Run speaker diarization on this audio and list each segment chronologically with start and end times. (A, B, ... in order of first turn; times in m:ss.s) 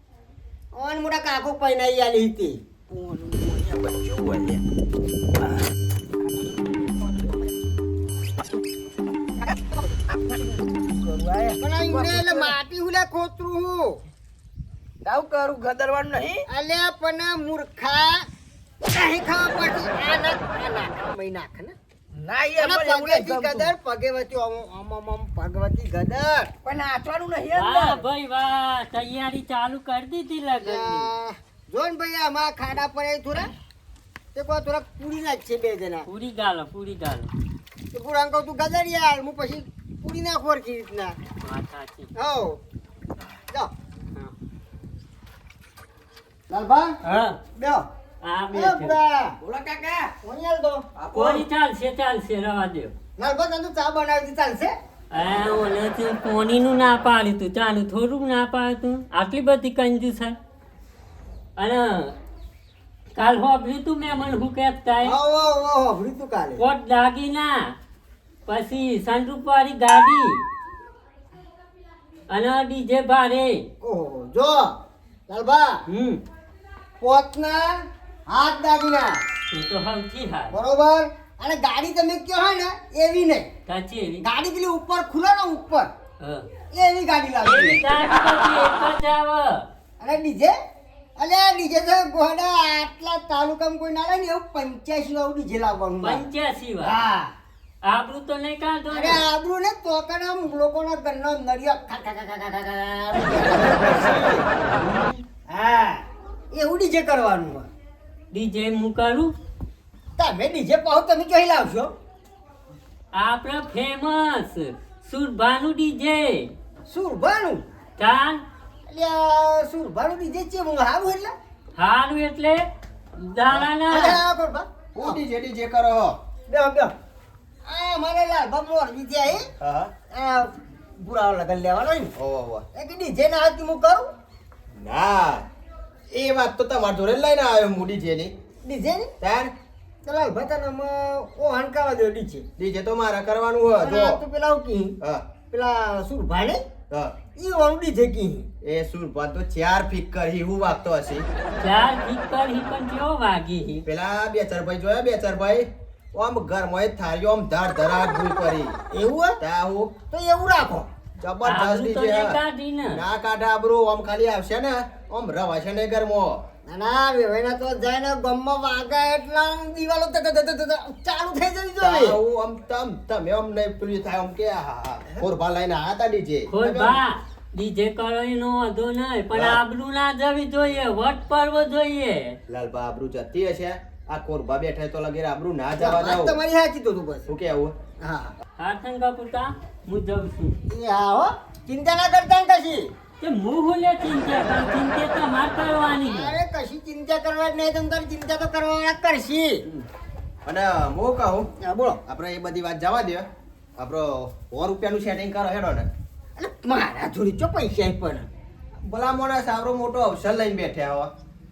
0:00.7-0:02.6 A
0:03.0-0:04.6 B
0:07.0-0:07.3 C
0:10.9-0:12.5 C
0:11.6-0:14.0 A
0:15.0-0:16.5 C
0:16.5-0:18.2 A
0:18.8-0:21.7 A
0:22.1-0:23.7 C
0:22.6-0:26.5 A
0:26.6-0:28.0 C
0:27.5-0:31.1 D
0:30.6-0:33.5 A
0:34.3-0:36.1 A
0:36.1-0:37.3 D
0:37.9-0:41.2 A
0:41.4-0:42.1 D
0:42.2-0:42.6 A
0:46.5-0:47.8 A
0:48.2-0:49.0 D
0:48.5-0:49.3 A
0:49.4-0:50.1 C
0:50.2-0:50.8 A
0:51.0-0:51.4 C
0:51.1-0:52.9 D
0:53.2-0:54.7 A
0:55.1-1:00.3 D
1:01.6-1:02.1 D
1:03.2-1:05.2 D
1:05.0-1:06.6 A
1:06.6-1:07.6 D
1:08.4-1:10.3 D
1:12.3-1:13.5 D
1:13.8-1:14.7 A
1:15.3-1:15.7 A
1:15.9-1:16.2 D
1:17.0-1:17.7 A
1:18.3-1:19.2 A
1:19.5-1:20.5 D
1:20.5-1:23.5 A
1:23.6-1:24.2 D
1:24.2-1:25.9 A
1:26.2-1:26.5 D
1:26.7-1:27.8 A
1:27.4-1:29.6 D
1:30.0-1:30.5 A
1:31.2-1:36.2 A
1:36.0-1:37.0 D
1:36.8-1:37.3 A
1:37.8-1:39.2 D
1:38.9-1:44.4 A
1:45.5-1:46.0 A
1:46.5-1:47.7 A
1:48.3-1:49.3 D
1:50.2-1:51.9 A
1:53.1-1:56.4 D
1:56.9-1:57.6 A
1:58.0-1:58.4 D
1:58.9-2:01.3 A
2:01.8-2:02.6 D
2:03.2-2:04.2 D
2:03.9-2:05.2 A
2:05.0-2:06.1 B
2:06.5-2:06.9 A
2:07.6-2:09.5 A
2:09.6-2:09.9 B
2:10.1-2:12.1 A
2:12.2-2:12.6 B
2:12.7-2:14.0 A
2:14.7-2:15.4 B
2:16.1-2:18.3 B
2:18.6-2:19.1 A
2:19.2-2:19.5 B
2:20.0-2:22.4 A
2:22.6-2:24.2 B
2:23.8-2:25.0 A
2:25.0-2:25.3 B
2:25.5-2:26.6 A
2:26.9-2:27.2 B
2:27.4-2:28.5 A
2:28.6-2:31.2 B
2:31.6-2:33.8 D
2:33.8-2:38.7 B
2:38.9-2:39.4 A
2:39.4-2:39.9 B
2:40.1-2:40.9 A
2:41.2-2:42.4 B
2:41.5-2:43.0 D
2:42.9-2:46.4 B
2:46.6-2:52.2 A
2:51.8-2:57.0 B
2:56.5-3:02.4 D
2:59.3-2:59.6 B
3:02.5-3:06.4 B
3:05.8-3:07.3 A
3:07.3-3:07.7 B
3:08.0-3:08.3 A
3:08.6-3:10.6 D
3:10.7-3:12.8 A
3:13.2-3:16.4 D
3:16.0-3:19.6 A
3:20.4-3:21.5 B
3:21.6-3:22.0 A
3:22.0-3:23.2 B
3:23.8-3:25.9 B
3:26.4-3:28.3 A
3:28.8-3:31.1 B